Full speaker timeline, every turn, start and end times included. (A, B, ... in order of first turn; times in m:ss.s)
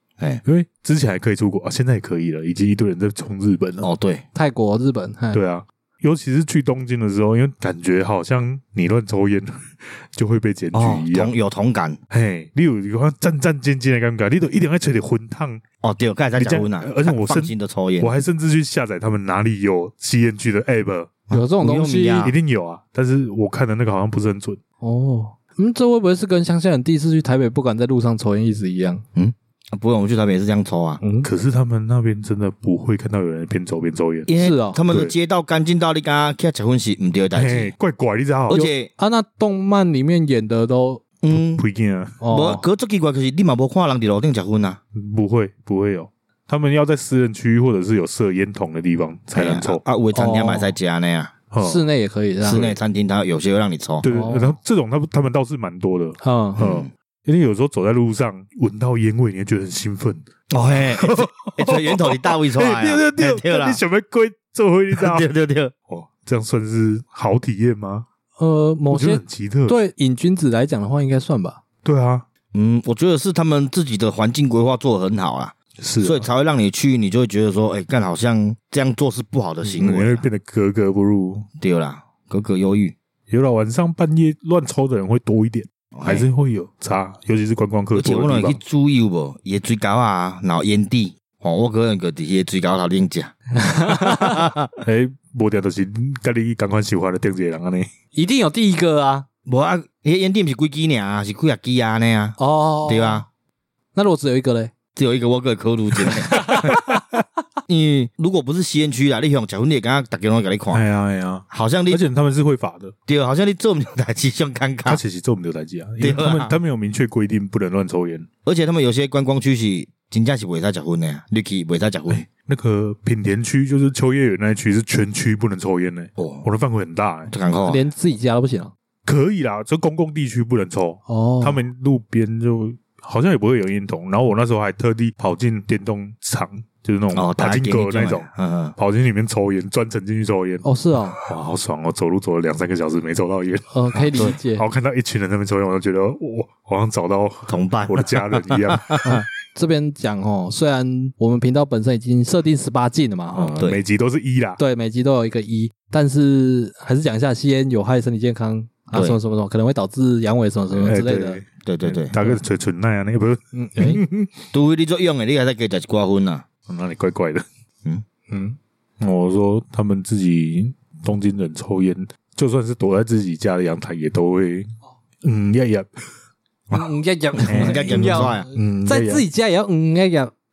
0:00.4-0:03.9 A
0:03.8-0:04.2 B
0:04.3-0:05.4 C
0:05.3-0:11.3 A
0:10.7-0:12.0 B
0:12.1-0:15.6 A
0:15.8-0:18.1 B
0:16.4-0:21.2 A
0:21.3-0:22.4 B
0:21.3-0:22.3 C
0:22.2-0:24.6 A
0:24.8-0:29.0 C
0:29.1-0:31.0 B
0:31.0-0:31.3 C
0:31.2-0:34.3 A
0:34.3-0:37.7 B
0:34.4-0:34.8 C
0:34.9-0:35.1 A
0:37.3-0:38.6 A
0:38.5-0:38.9 B
0:38.5-0:41.0 C
0:41.2-0:41.6 B
0:41.3-0:42.2 A
0:42.2-0:42.6 C
0:42.3-0:44.8 B
0:44.9-0:49.8 A
0:49.3-0:51.3 B
0:50.1-0:50.7 C
0:51.5-0:51.8 A
0:51.6-0:52.8 C
0:52.4-0:54.0 B
0:54.0-1:00.2 A
0:54.1-0:54.5 C
0:56.2-0:56.6 C
0:56.6-0:56.9 B
1:00.5-1:03.8 B
1:00.9-1:05.3 A
1:04.9-1:05.7 B
1:05.9-1:08.0 A
1:08.4-1:11.6 C
1:08.9-1:09.8 A
1:11.8-1:12.2 A
1:12.5-1:20.2 B
1:15.8-1:16.3 A
1:19.6-1:21.5 A
1:21.6-1:22.9 B
1:23.3-1:28.6 A
1:25.9-1:26.2 B
1:27.9-1:33.4 B
1:33.5-1:34.4 C
1:33.9-1:34.7 B
1:34.8-1:37.9 A
1:38.1-1:39.3 C
1:39.4-1:43.2 B
1:42.4-1:43.2 C
1:43.9-1:44.7 C
1:45.0-1:46.7 B
1:46.0-1:47.0 C
1:46.6-1:47.0 A
1:47.7-1:50.8 B
1:50.7-1:52.9 A
1:51.5-1:52.0 B
1:53.1-1:55.0 B
1:54.9-1:58.3 A
1:56.0-1:56.5 B
1:58.4-2:02.2 B
2:02.1-2:07.3 A
2:06.2-2:06.5 B
2:07.3-2:07.9 B
2:07.6-2:08.7 C
2:09.0-2:20.6 A
2:11.1-2:11.6 C
2:17.1-2:18.8 B
2:20.6-2:21.2 C
2:21.2-2:29.0 A
2:23.7-2:24.6 C
2:27.5-2:29.2 B
2:29.0-2:33.5 C
2:33.3-2:34.6 A
2:34.6-2:41.4 C
2:40.7-2:44.3 A
2:41.6-2:42.2 B
2:43.5-2:44.0 C
2:44.5-2:46.4 B
2:46.7-2:47.4 A
2:48.3-2:48.6 C
2:49.0-2:54.7 A
2:55.2-2:55.9 A
2:56.7-3:00.3 C
2:57.4-2:58.5 B
2:57.4-2:59.2 A